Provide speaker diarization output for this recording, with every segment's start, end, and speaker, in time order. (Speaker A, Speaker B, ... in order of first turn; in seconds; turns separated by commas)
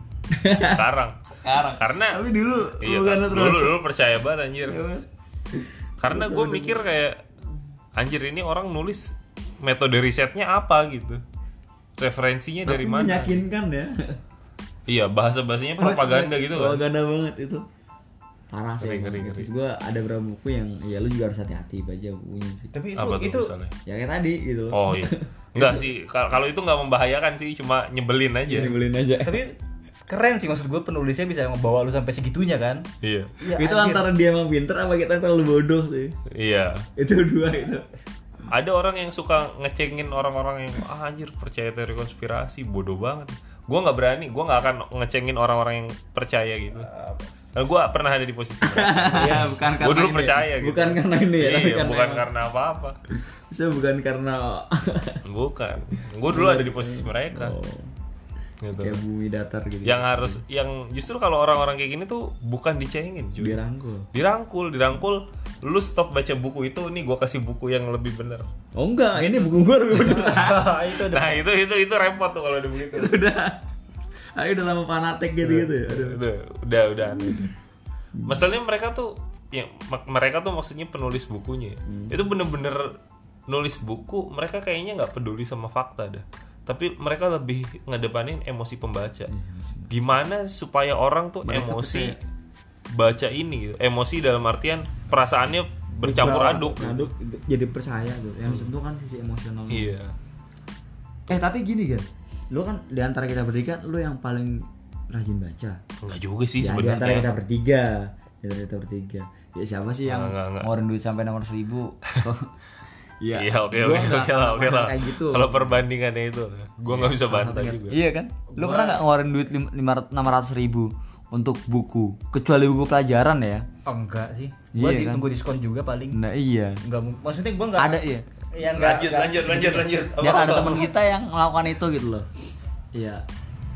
Speaker A: 0.3-0.8, Speaker B: 0.6-1.2, Speaker A: 1.4-3.8, Speaker B: 1.8-2.2, Speaker B: 2.8-4.8, Speaker A: 4.7-6.8, Speaker B: 6.0-7.2, Speaker B: 8.0-11.2, Speaker B: 12.0-13.4, Speaker A: 12.7-14.2, Speaker B: 14.9-16.8, Speaker A: 15.8-17.6, Speaker A: 18.5-22.7, Speaker B: 18.8-19.5, Speaker C: 22.7-23.5, Speaker B: 22.9-23.7, Speaker A: 23.9-25.9, Speaker B: 24.7-28.8, Speaker A: 28.4-29.4, Speaker C: 29.2-32.9, Speaker B: 33.0-33.3, Speaker C: 33.4-34.1, Speaker A: 33.4-36.1, Speaker B: 36.3-36.9, Speaker A: 37.0-37.9, Speaker B: 38.5-46.9, Speaker B: 47.5-53.0, Speaker A: 48.6-52.2, Speaker A: 53.2-55.2, Speaker B: 55.2-57.5, Speaker A: 56.0-57.9, Speaker B: 58.6-59.0, Speaker A: 58.7-60.4, Speaker B: 59.8-63.6, Speaker A: 63.4-64.1, Speaker B: 64.1-68.5, Speaker A: 68.8-70.7, Speaker B: 69.2-69.5, Speaker C: 69.9-71.5, Speaker B: 71.0-73.2, Speaker A: 72.9-73.6, Speaker A: 74.3-76.2, Speaker B: 75.4-77.5, Speaker A: 77.1-77.5, Speaker A: 78.1-78.4, Speaker B: 78.2-89.3, Speaker A: 81.8-82.2, Speaker A: 89.3-90.1, Speaker B: 89.9-92.2, Speaker A: 91.4-92.2, Speaker B: 92.9-97.1, Speaker A: 96.0-99.9, Speaker B: 98.5-98.7, Speaker B: 99.7-100.2, Speaker A: 101.3-105.8, Speaker B: 106.0-107.3, Speaker A: 106.6-112.5, Speaker B: 110.0-110.7, Speaker A: 113.2-115.8, Speaker B: 113.3-118.0, Speaker C: 117.0-117.7, Speaker A: 117.0-123.7, Speaker C: 118.5-119.0, Speaker C: 123.8-126.2, Speaker A: 124.7-125.2, Speaker A: 126.1-126.8, Speaker C: 126.8-129.8, Speaker A: 127.8-128.2, Speaker B: 128.7-130.9, Speaker A: 129.4-132.3, Speaker A: 132.9-133.2